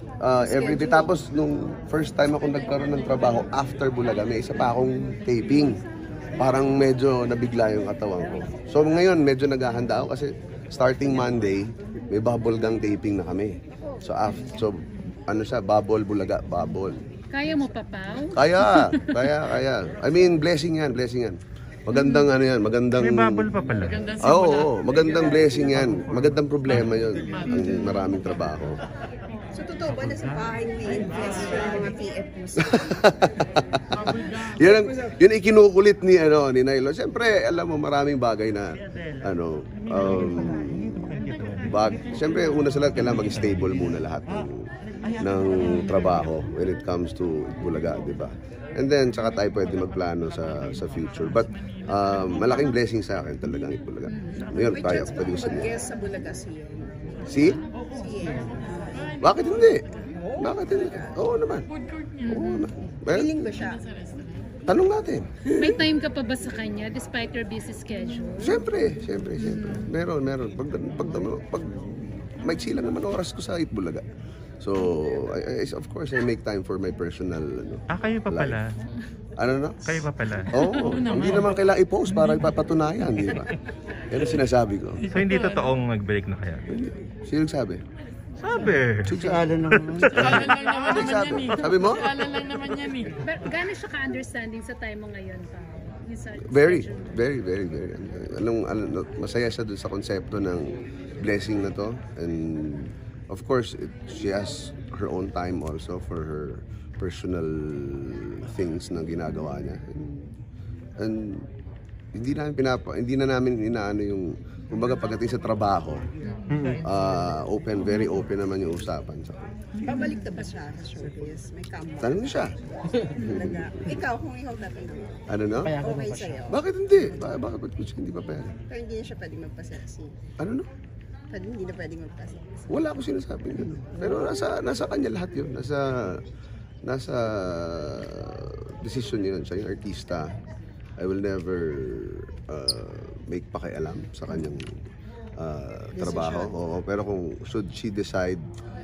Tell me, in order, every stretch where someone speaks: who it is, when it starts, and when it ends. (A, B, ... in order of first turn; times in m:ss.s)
0:00.2-0:05.8 A
0:00.4-0:01.1 B
0:06.3-0:17.0 A
0:17.3-0:19.4 C
0:18.2-0:23.5 A
0:23.0-0:24.5 D
0:24.1-0:28.8 A
0:29.5-0:33.1 B
0:32.6-0:55.7 A
0:41.3-0:41.5 D
0:54.5-0:59.2 B
0:57.2-0:57.6 A
0:59.2-0:59.9 A
1:00.1-1:01.2 B
1:00.4-1:01.7 A
1:02.2-1:02.6 C
1:02.2-1:03.4 A
1:03.1-1:03.9 B
1:04.6-1:05.3 A
1:05.5-1:08.6 C
1:08.4-1:14.0 A
1:09.4-1:09.9 C
1:14.6-1:18.6 A
1:17.9-1:18.6 D
1:19.4-1:25.1 A
1:19.8-1:21.2 D
1:25.1-1:26.6 D
1:26.7-1:27.8 A
1:28.4-1:31.4 D
1:29.0-1:32.8 A
1:32.3-1:33.1 D
1:33.2-1:37.1 C
1:36.5-1:50.3 A
1:51.0-1:51.5 A
1:52.1-1:56.1 A
1:56.6-1:59.5 A
1:59.8-2:06.6 B
2:02.0-2:02.5 A
2:03.1-2:03.6 A
2:05.3-2:05.8 A
2:06.5-2:08.6 A
2:08.7-2:10.2 B
2:10.4-2:10.7 A
2:11.3-2:12.6 B
2:12.7-2:16.2 A
2:16.8-2:20.4 A
2:21.0-2:24.8 A
2:25.4-2:28.4 A